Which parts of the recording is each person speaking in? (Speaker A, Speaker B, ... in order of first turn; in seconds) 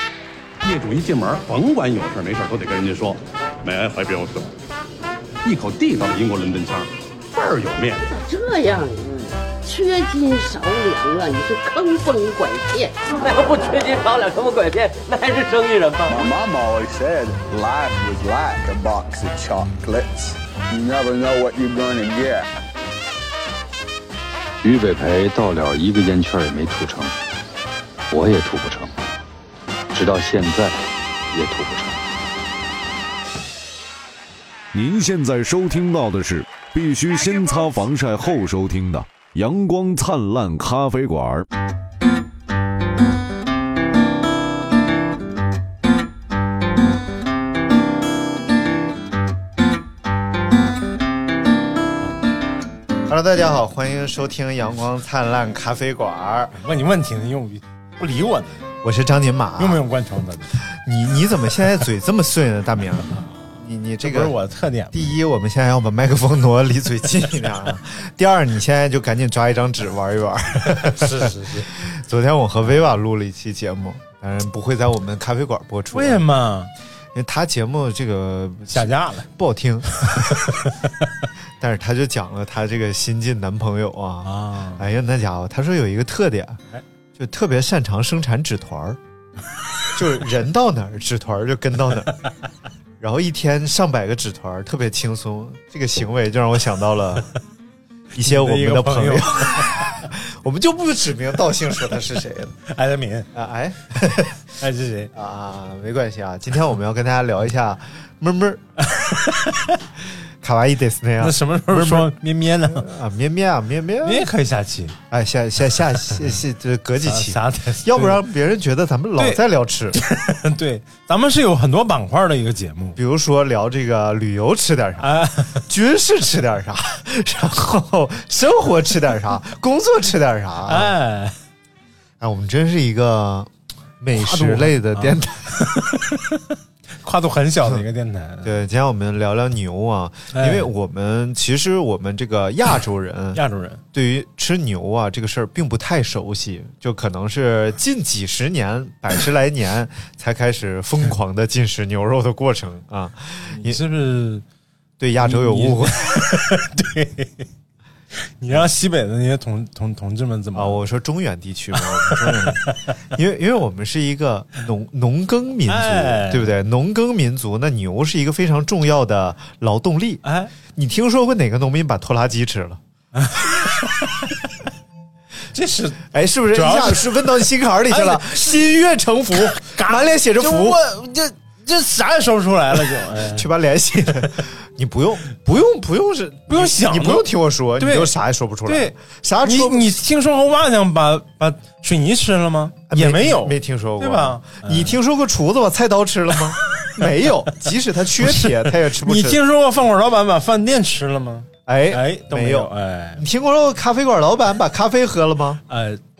Speaker A: 0.6-4.5, 5.4-8.1
Speaker B: 8.1-13.1
Speaker C: 13.3-16.2
Speaker D: 16.1-22.4
Speaker E: 24.6-27.1, 28.1-28.9, 29.9-30.8, 31.3-32.0
Speaker F: 34.7-41.4
Speaker G: 53.1-56.5, 58.8-59.8, 60.7-64.3, 64.9-76.2, 77.1-80.5, 81.6-86.6, 87.2-89.0, 90.0-92.2, 93.0-97.3, 98.2-102.5, 103.3-104.4, 105.1-108.6, 110.4-112.1, 112.6-114.3, 115.1-120.0, 123.0-130.9, 132.2-135.5, 138.4-143.4, 143.9-153.8, 155.0-156.2, 160.6-172.8, 176.1-180.8, 182.9-189.9, 192.9-199.4, 201.7-205.6
Speaker H: 56.6-58.5, 59.6-60.6, 63.1-65.1, 70.7-71.7, 75.9-76.7, 78.7-79.3, 80.1-81.1, 84.2-84.9, 98.2-100.1, 102.7-103.3, 104.6-105.1, 108.9-109.8, 111.2-112.9, 114.0-115.0, 117.0-118.2, 119.2-119.4, 119.9-123.0, 125.0-125.6, 130.7-131.3, 134.2-138.6, 140.3-140.7, 143.3-143.8, 153.5-154.4, 155.2-157.5, 158.4-160.8, 161.7-162.9, 165.7-166.5, 170.2-170.5, 173.2-174.5, 175.5-178.6, 179.3-183.5, 186.5-188.1, 188.7-195.0, 196.8-197.0, 198.2-203.2, 205.7-206.0